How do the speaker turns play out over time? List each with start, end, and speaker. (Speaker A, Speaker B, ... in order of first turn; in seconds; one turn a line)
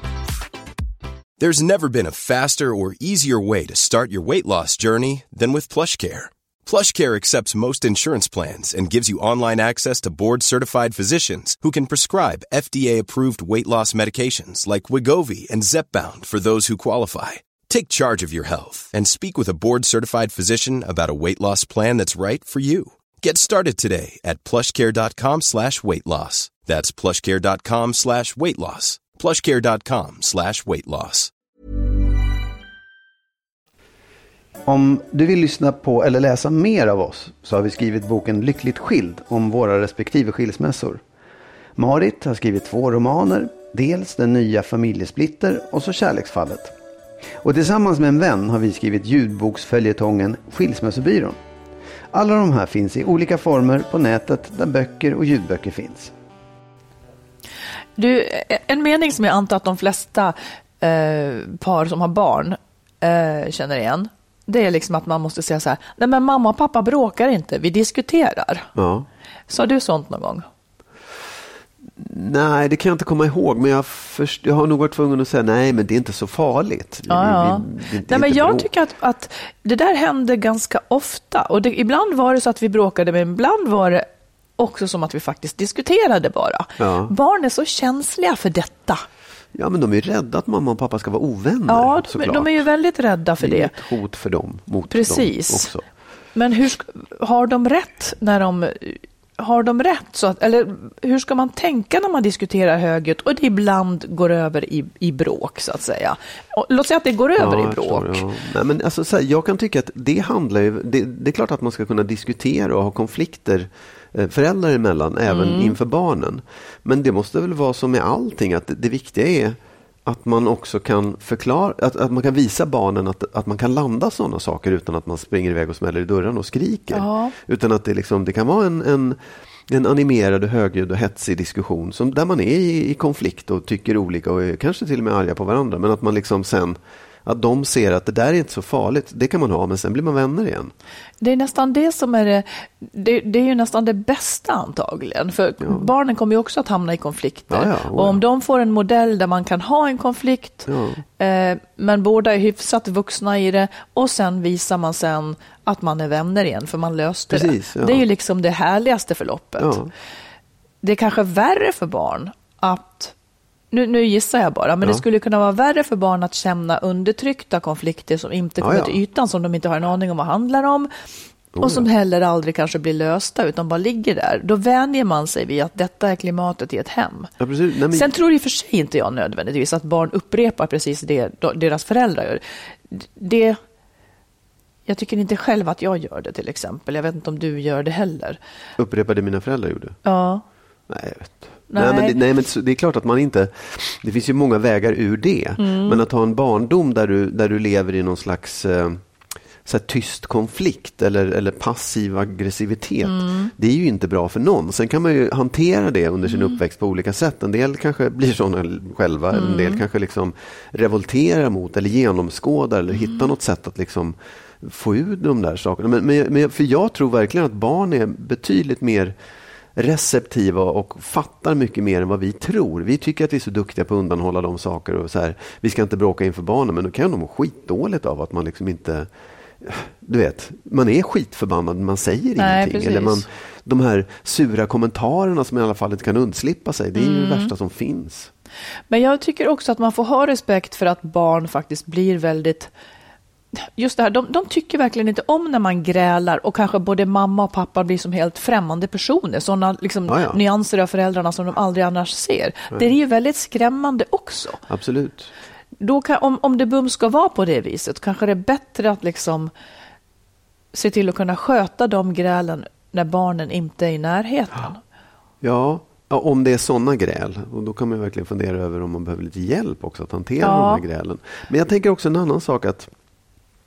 Speaker A: 1.4-31.3
Speaker B: 34.7-41.0
Speaker B: 41.8-46.7
Speaker B: 47.4-51.4
Speaker B: 52.1-56.1
Speaker C: 58.0-68.7
Speaker D: 68.8-69.1
Speaker C: 69.5-70.5
Speaker D: 72.0-78.7
Speaker C: 77.1-84.0
Speaker C: 84.6-89.0
Speaker D: 86.8-87.1
Speaker D: 89.5-92.7
Speaker C: 91.7-93.7
Speaker D: 93.4-95.8
Speaker C: 94.9-95.7
Speaker C: 96.3-108.2
Speaker D: 107.4-140.7
Speaker C: 115.3-115.8
Speaker C: 126.9-127.3
Speaker C: 141.2-159.8
Speaker D: 145.6-145.9
Speaker D: 147.5-148.2
Speaker D: 150.7-151.0
Speaker D: 157.3-158.0
Speaker D: 159.6-159.9
Speaker C: 160.8-163.1
Speaker C: 163.7-170.9
Speaker D: 168.6-169.0
Speaker D: 171.5-171.9
Speaker C: 171.6-177.3
Speaker D: 177.4-178.1
Speaker C: 177.9-183.6
Speaker C: 184.9-188.4
Speaker D: 188.8-190.0
Speaker C: 190.0-190.4
Speaker D: 190.9-199.0
Speaker C: 191.7-192.2
Speaker C: 195.6-196.0
Speaker D: 199.6-219.1
Speaker C: 203.0-203.5
Speaker C: 209.3-209.8
Speaker D: 219.8-229.1
Speaker D: 229.6-238.3
Speaker C: 232.4-233.2
Speaker C: 236.9-237.5
Speaker C: 238.9-242.7
Speaker C: 243.6-254.6
Speaker D: 250.1-250.4
Speaker D: 254.7-255.3
Speaker C: 255.8-259.5
Speaker C: 260.7-264.8
Speaker D: 265.4-272.9
Speaker C: 270.4-270.8